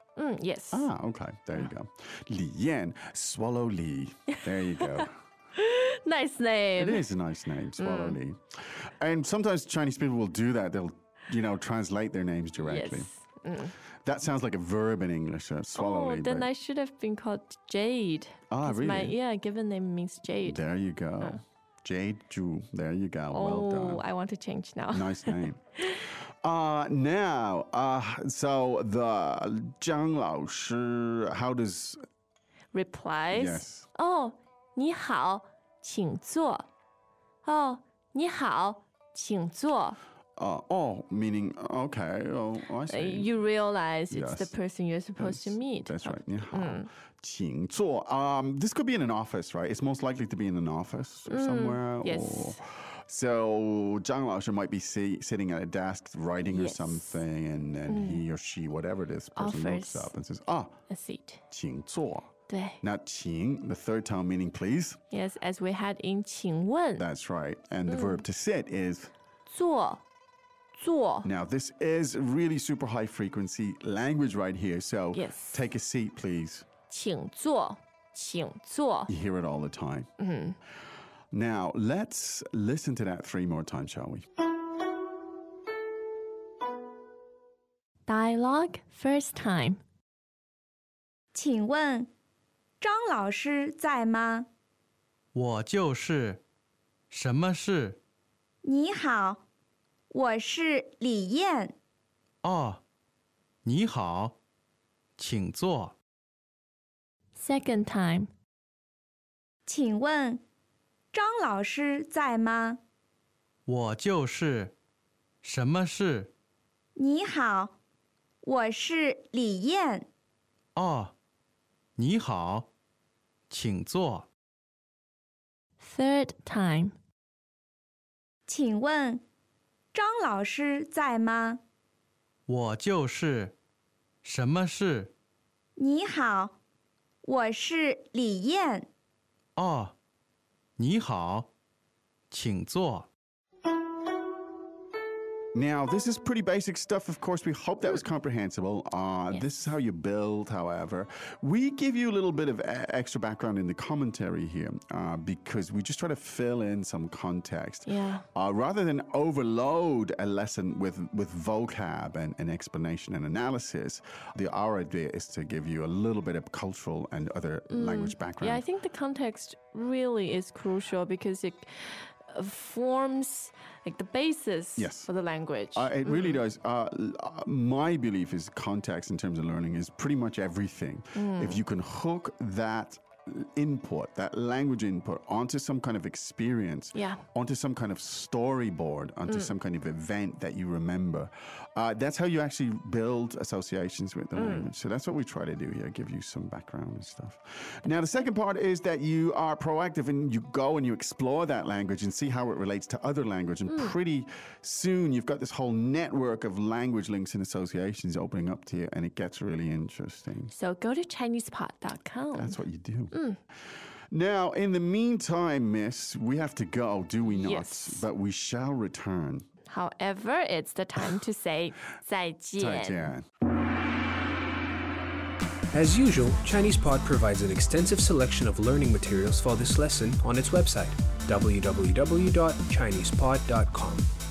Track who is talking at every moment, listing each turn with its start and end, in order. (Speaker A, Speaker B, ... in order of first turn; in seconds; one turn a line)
Speaker A: 0.2-0.9
Speaker B: 0.7-5.2
Speaker A: 4.8-7.1
Speaker B: 6.8-13.1
Speaker A: 7.8-8.2
Speaker A: 12.6-13.8
Speaker B: 14.0-16.5
Speaker A: 15.8-20.6
Speaker B: 18.5-19.2
Speaker B: 20.4-24.0
Speaker A: 23.3-25.9
Speaker B: 24.9-25.7
Speaker B: 26.4-32.0
Speaker A: 32.7-36.7
Speaker B: 33.3-33.9
Speaker A: 37.4-40.0
Speaker B: 40.4-43.3
Speaker A: 42.9-46.9
Speaker B: 44.1-44.5
Speaker B: 45.2-60.8
Speaker A: 51.3-52.6
Speaker A: 56.5-57.2
Speaker A: 57.9-58.2
Speaker A: 59.4-60.1
Speaker A: 60.9-61.4
Speaker B: 61.5-62.3
Speaker A: 62.5-62.8
Speaker B: 62.8-65.0
Speaker A: 65.1-67.1
Speaker B: 67.0-69.1
Speaker A: 67.9-68.2
Speaker A: 69.5-70.0
Speaker A: 70.8-71.3
Speaker B: 71.2-76.7
Speaker A: 75.1-75.7
Speaker A: 76.9-79.1
Speaker B: 79.1-80.1
Speaker A: 80.2-80.6
Speaker B: 81.3-84.3
Speaker A: 88.1-89.8
Speaker C: 91.3-92.1
Speaker C: 92.8-94.5
Speaker D: 95.3-96.4
Speaker D: 97.1-98.0
Speaker C: 98.6-99.4
Speaker C: 100.1-101.7
Speaker D: 102.4-102.8
Speaker D: 103.7-104.4
Speaker D: 105.2-106.0
Speaker A: 107.3-108.3
Speaker C: 109.7-110.4
Speaker C: 111.1-112.8
Speaker D: 113.7-114.7
Speaker D: 115.4-116.3
Speaker C: 117.0-117.7
Speaker C: 118.4-120.1
Speaker D: 120.8-121.1
Speaker D: 122.0-122.7
Speaker D: 123.5-124.3
Speaker A: 125.8-127.0
Speaker C: 128.5-129.2
Speaker C: 129.9-131.6
Speaker D: 132.5-133.5
Speaker D: 134.2-135.1
Speaker C: 135.8-136.5
Speaker C: 137.2-138.9
Speaker D: 139.6-139.9
Speaker D: 140.8-141.5
Speaker D: 142.3-143.1
Speaker B: 145.5-168.7
Speaker A: 157.9-158.3
Speaker A: 167.7-176.4
Speaker B: 174.8-175.1
Speaker B: 175.8-210.5
Speaker A: 181.2-181.6
Speaker A: 186.9-187.2
Speaker A: 189.3-189.5
Speaker A: 194.4-194.7
Speaker A: 203.7-203.9
Speaker A: 210.5-212.6
Speaker B: 212.3-213.1
Speaker A: 213.1-213.4
Speaker B: 214.1-219.5
Speaker A: 217.2-218.1
Speaker A: 219.7-223.1
Speaker B: 222.6-223.2
Speaker E: 225.7-234.1